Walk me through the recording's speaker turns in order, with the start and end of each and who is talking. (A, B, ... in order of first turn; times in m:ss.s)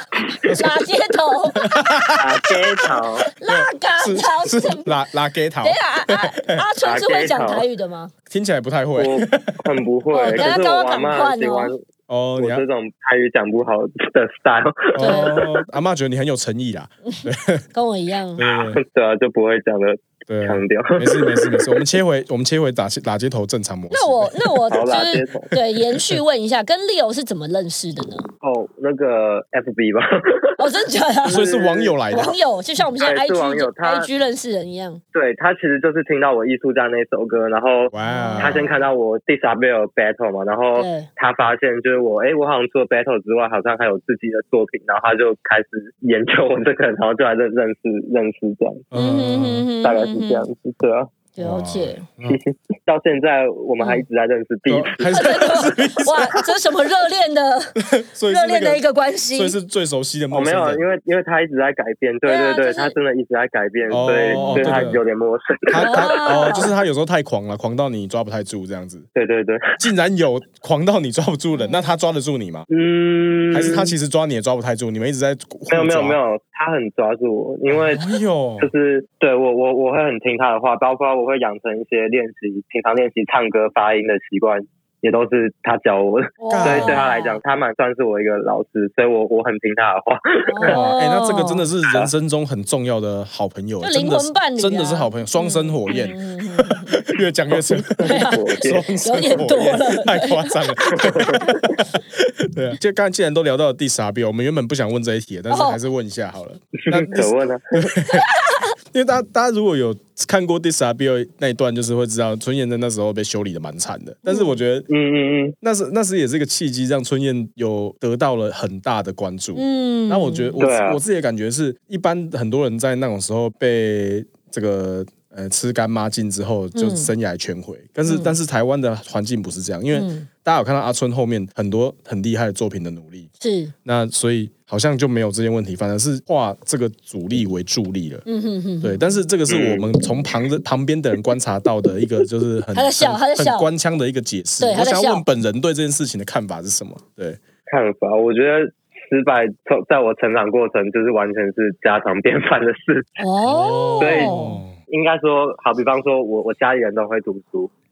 0:00.2-0:00.4 A
0:00.3-0:01.9 B
0:00.4-0:00.8 C
0:01.6-0:02.5 C
0:02.2-0:03.3 A
0:03.3-0:04.9 B
0:03.5-0:06.6 C
0:05.6-0:08.1 B
0:06.8-0:07.7 A
0:08.3-0:09.6 C
0:09.0-0:11.8 A
0:10.1-0:11.7 B
0:12.1-0:12.6 C
0:12.4-0:15.5 A
0:15.0-0:17.6 C
0:15.0-0:15.3 B
0:17.1-0:18.4 B
0:18.4-0:18.8 C
0:18.5-0:21.7 A
0:20.3-0:24.6 C
0:23.9-0:28.3 B
0:24.7-0:25.5 A
0:25.9-0:26.2 C
0:28.4-0:30.6 A
0:30.6-0:31.5 B
0:31.3-0:32.0 A
0:31.3-0:32.4 C
0:32.1-0:35.0 B
0:33.0-0:34.1 A
0:35.1-0:48.8 A
0:37.9-0:38.8 C
0:38.0-0:38.6 B
0:40.8-0:41.1 B
0:48.9-0:49.7 C
0:48.9-0:50.4 B
0:49.8-0:51.1 A
0:51.4-0:52.0 B
0:51.4-0:52.4 C
0:52.2-0:55.5 A
0:54.7-0:56.5 C
0:55.1-0:59.6 B
0:57.8-1:00.8 C
1:00.3-1:06.6 A
1:02.2-1:03.0 B
1:03.9-1:05.0 C
1:04.3-1:04.9 B
1:05.7-1:09.1 C
1:05.8-1:06.7 B
1:09.2-1:09.8 A
1:09.8-1:12.7 C
1:11.6-1:11.9 B
1:12.7-1:14.0 A
1:13.5-1:16.2 C
1:15.7-1:18.0 A
1:17.7-1:18.7 C
1:18.6-1:30.8 A
1:26.4-1:27.4 B
1:26.5-1:27.0 C
1:30.4-1:31.7 B
1:30.6-1:48.3 C
1:31.8-1:32.1 A
1:33.8-1:37.0 B
1:38.0-1:38.9 A
1:38.0-1:41.5 B
1:41.0-1:41.8 A
1:45.5-1:45.8 B
1:46.8-1:47.7 A
1:48.1-1:48.7 B
1:48.9-1:54.9 C
1:54.3-1:54.6 B
1:54.9-1:55.6 A
1:55.6-2:13.3 C
1:59.6-2:00.6 B
2:00.6-2:01.0 A
2:06.8-2:07.1 B
2:08.1-2:08.4 B
2:09.9-2:10.3 B
2:13.4-2:13.7 B
2:13.8-2:18.2 C
2:18.3-2:19.1 B
2:18.8-2:27.4 C
2:19.5-2:19.9 A
2:22.7-2:23.7 B
2:24.6-2:25.2 B
2:27.7-2:33.2 A
2:33.2-2:34.6 B
2:33.4-2:34.8 C
2:34.0-2:34.4 A
2:34.9-2:37.7 A